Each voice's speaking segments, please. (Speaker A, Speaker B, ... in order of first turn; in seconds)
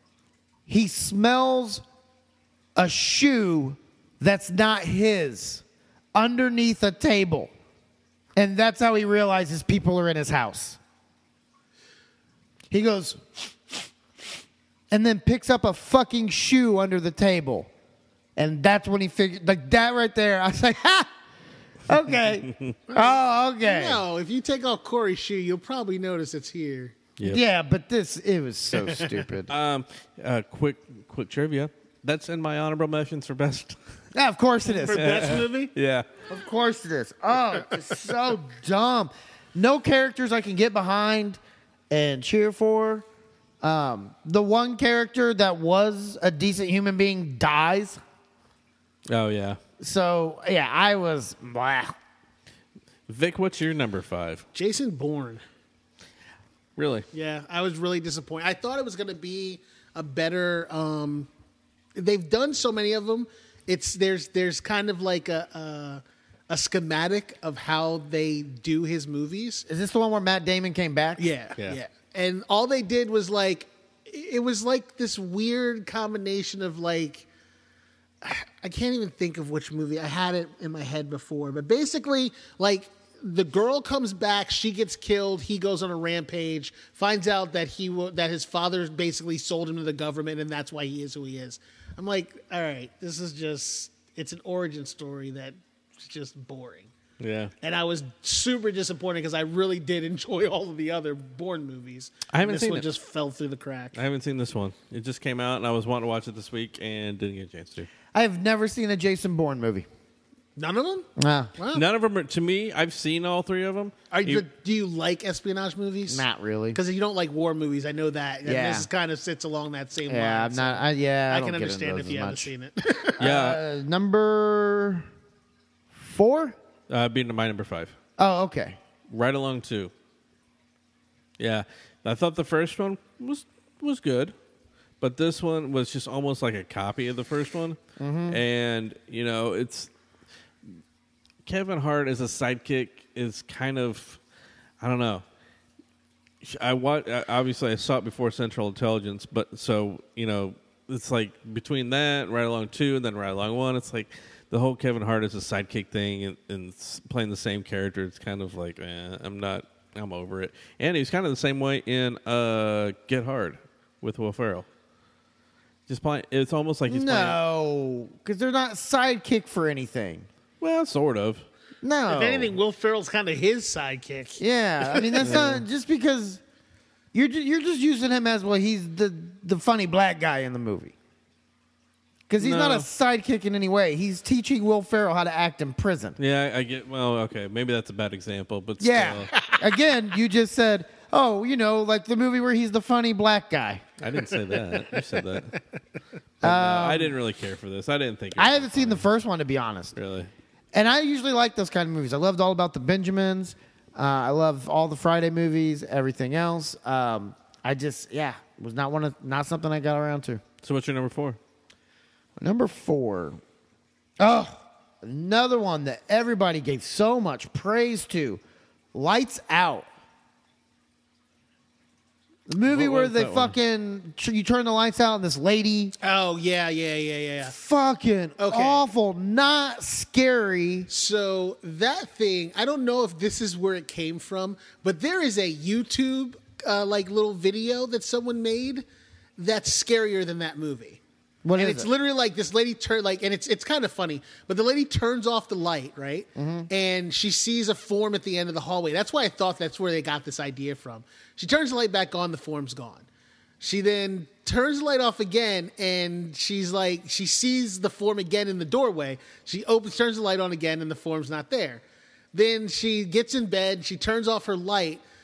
Speaker A: 0.7-1.8, 2.7-5.6, 6.1-7.5, 8.3-10.8, 12.7-13.9, 14.9-17.7, 18.4-21.1, 21.9-24.0, 27.2-29.5, 34.1-35.2, 36.3-43.0, 43.6-48.0, 49.8-52.0, 69.7-71.3, 108.1-109.9, 111.2-111.5, 116.1-116.8, 118.4-118.9, 120.1-122.5, 123.2-125.1, 125.9-126.5, 128.2-128.8, 138.0-138.4, 166.9-170.3, 171.8-172.6, 174.4-176.4, 177.1-180.9, 182.3-186.2, 188.8-193.8, 196.4-197.2, 198.3-199.9, 200.7-210.4, 212.4-213.4, 214.2-218.4, 218.9-219.9, 222.5-225.9, 227.4-230.9, 241.4-241.9, 246.3-246.7
Speaker B: 22.9-26.9, 28.9-29.2, 34.7-35.7, 54.5-55.4, 57.1-61.3, 61.9-69.7, 71.2-77.3, 78.2-96.9, 97.6-104.0, 110.6-111.8, 114.1-123.2, 172.1-175.4, 189.3-189.6, 226.0-227.5, 228.4-228.8, 230.9-238.8, 239.4-241.0, 241.6-253.1, 253.6-265.0
Speaker C: 29.5-33.8, 34.9-36.1, 49.1-49.6, 53.1-54.4, 56.8-57.0, 97.2-97.5, 102.3-102.9, 103.9-107.9, 111.7-114.5, 123.2-123.6, 126.9-127.9, 129.1-129.9, 131.4-134.3, 135.0-137.8, 138.3-139.9, 141.4-144.2, 144.8-145.2, 146.4-164.7, 165.9-167.4, 170.6-171.4, 175.2-175.6, 182.4-182.9, 186.2-189.3, 194.0-195.6, 196.4-199.0, 199.9-200.3, 210.6-211.4, 222.6-223.6